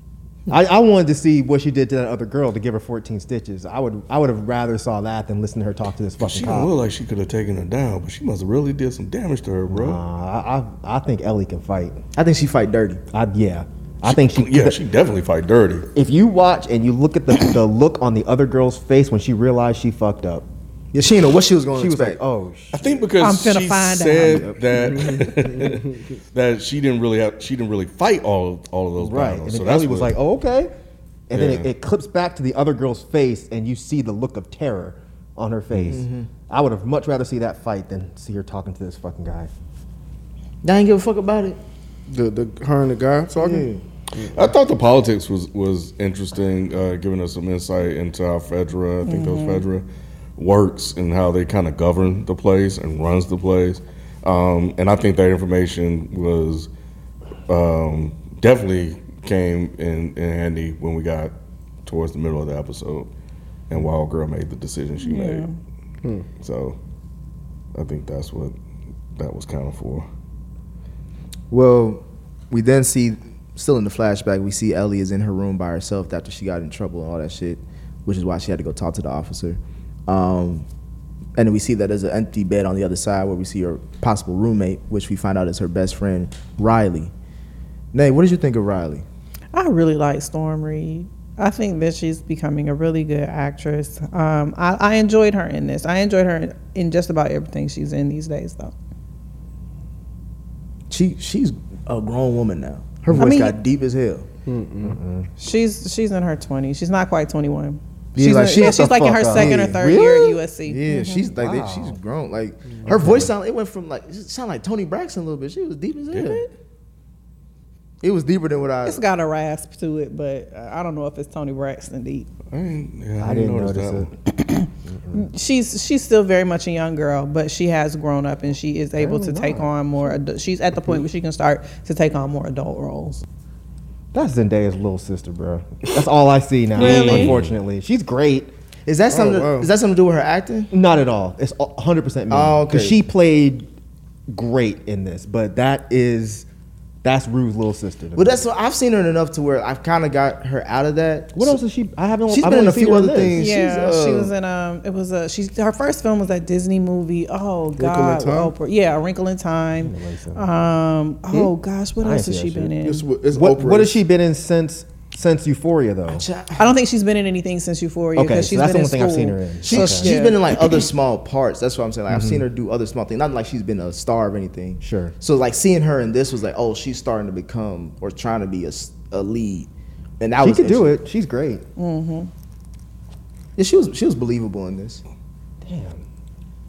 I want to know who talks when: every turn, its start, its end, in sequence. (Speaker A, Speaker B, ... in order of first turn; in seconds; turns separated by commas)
Speaker A: 0.5-6.7, Speaker B: 6.2-10.0, Speaker A: 9.7-12.0, Speaker C: 12.2-13.0, Speaker A: 13.1-14.8, Speaker B: 14.0-15.9, Speaker A: 15.9-20.5, Speaker C: 20.9-22.2, Speaker A: 21.7-23.1, Speaker B: 22.7-30.2, Speaker D: 23.2-24.5, Speaker E: 24.8-26.1, Speaker A: 29.0-30.7, Speaker A: 31.3-39.5, Speaker B: 31.3-31.7, Speaker C: 35.9-36.3, Speaker C: 40.6-41.6, Speaker E: 42.1-44.4, Speaker C: 43.4-43.9, Speaker B: 44.2-49.9, Speaker D: 49.0-49.6, Speaker B: 50.4-56.7, Speaker B: 57.5-61.3, Speaker B: 61.9-63.1, Speaker B: 63.7-65.5, Speaker D: 65.0-65.6, Speaker E: 66.0-66.3, Speaker B: 66.4-66.8, Speaker B: 67.8-68.5, Speaker B: 69.2-70.1, Speaker C: 71.5-80.7, Speaker C: 81.4-87.1, Speaker C: 87.9-89.0, Speaker D: 89.5-98.7, Speaker C: 100.9-104.3, Speaker A: 103.1-103.4, Speaker D: 103.1-103.6, Speaker E: 104.5-105.0, Speaker A: 104.8-105.3, Speaker D: 105.4-111.3, Speaker C: 108.2-109.9, Speaker A: 108.5-110.4, Speaker C: 110.7-116.4, Speaker A: 111.3-112.0, Speaker A: 112.8-113.3, Speaker B: 116.1-116.5, Speaker C: 118.0-119.0, Speaker D: 118.8-122.3, Speaker B: 122.5-124.1, Speaker A: 123.2-124.1, Speaker D: 124.3-133.2, Speaker A: 124.8-125.3, Speaker A: 129.0-130.2, Speaker A: 134.1-138.5, Speaker D: 136.8-137.3, Speaker B: 136.8-137.5, Speaker C: 138.9-140.7, Speaker E: 139.1-139.7, Speaker A: 140.7-143.7, Speaker C: 142.3-143.0, Speaker A: 144.3-146.5, Speaker A: 147.0-148.4, Speaker C: 148.2-151.6, Speaker A: 151.3-153.4, Speaker C: 152.3-154.3, Speaker D: 153.4-163.1, Speaker E: 157.8-158.6, Speaker A: 159.8-160.5, Speaker A: 161.3-162.7, Speaker E: 162.8-164.0, Speaker A: 163.3-166.3, Speaker C: 166.1-166.7, Speaker D: 166.6-170.4, Speaker A: 168.2-170.2, Speaker C: 169.6-179.7, Speaker A: 172.1-172.4, Speaker A: 174.8-175.1, Speaker C: 180.2-180.9, Speaker A: 180.4-181.6, Speaker D: 181.8-182.3, Speaker C: 183.6-185.0, Speaker A: 185.6-186.0